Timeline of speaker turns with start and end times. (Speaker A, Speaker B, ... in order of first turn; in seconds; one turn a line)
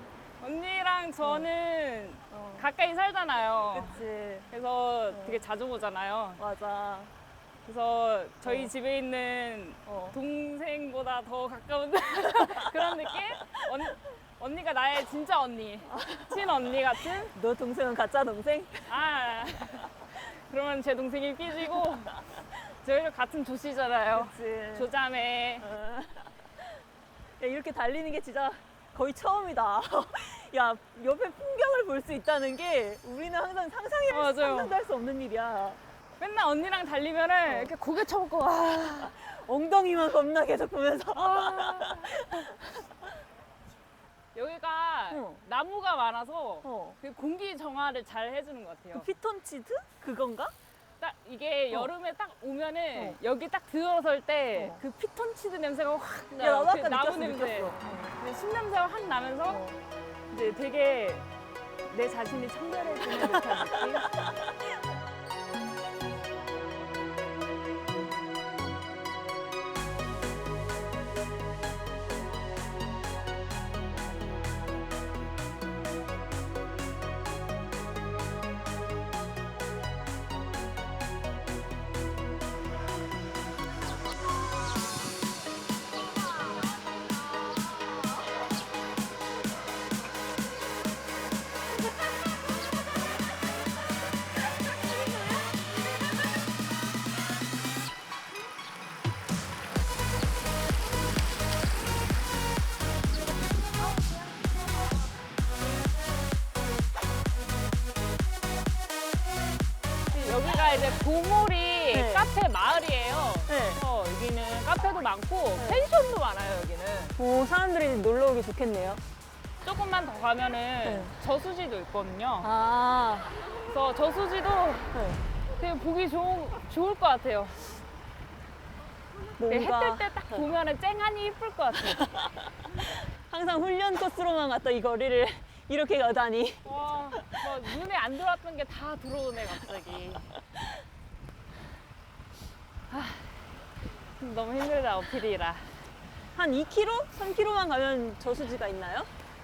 Speaker A: 0.4-6.4
Speaker B: 1.2-1.5
Speaker B: 2.3-2.6
Speaker B: 3.7-4.5
Speaker B: 5.1-5.4
Speaker B: 6.4-7.1
Speaker A: 7.6-17.3
Speaker B: 8.4-8.7
Speaker B: 9.9-10.2
Speaker B: 15.9-16.5
Speaker B: 17.3-18.9
Speaker A: 18.9-25.6
Speaker B: 24.1-24.9
Speaker B: 25.6-26.3
Speaker B: 27.4-35.8
Speaker A: 34.1-34.7
Speaker A: 36.2-39.1
Speaker B: 39.0-42.5
Speaker A: 41.2-42.6
Speaker A: 44.4-49.1
Speaker B: 45.1-45.4
Speaker B: 46.6-47.0
Speaker B: 49.0-50.5
Speaker A: 51.0-59.6
Speaker B: 56.4-58.1
Speaker B: 59.5-59.8
Speaker A: 60.3-61.3
Speaker A: 61.9-64.1
Speaker B: 63.1-64.3
Speaker A: 110.1-117.2
Speaker B: 111.9-112.2
Speaker B: 113.5-113.8
Speaker B: 115.6-115.9
Speaker B: 117.2-119.0
Speaker A: 119.6-122.5
Speaker B: 120.8-121.1
Speaker B: 122.4-123.4
Speaker A: 123.7-124.9
Speaker B: 124.9-125.2
Speaker A: 125.6-127.6
Speaker B: 129.4-130.4
Speaker A: 129.5-132.1
Speaker B: 132.0-136.7
Speaker A: 136.7-140.2
Speaker A: 142.9-143.4
Speaker A: 144.2-145.7
Speaker B: 146.3-149.1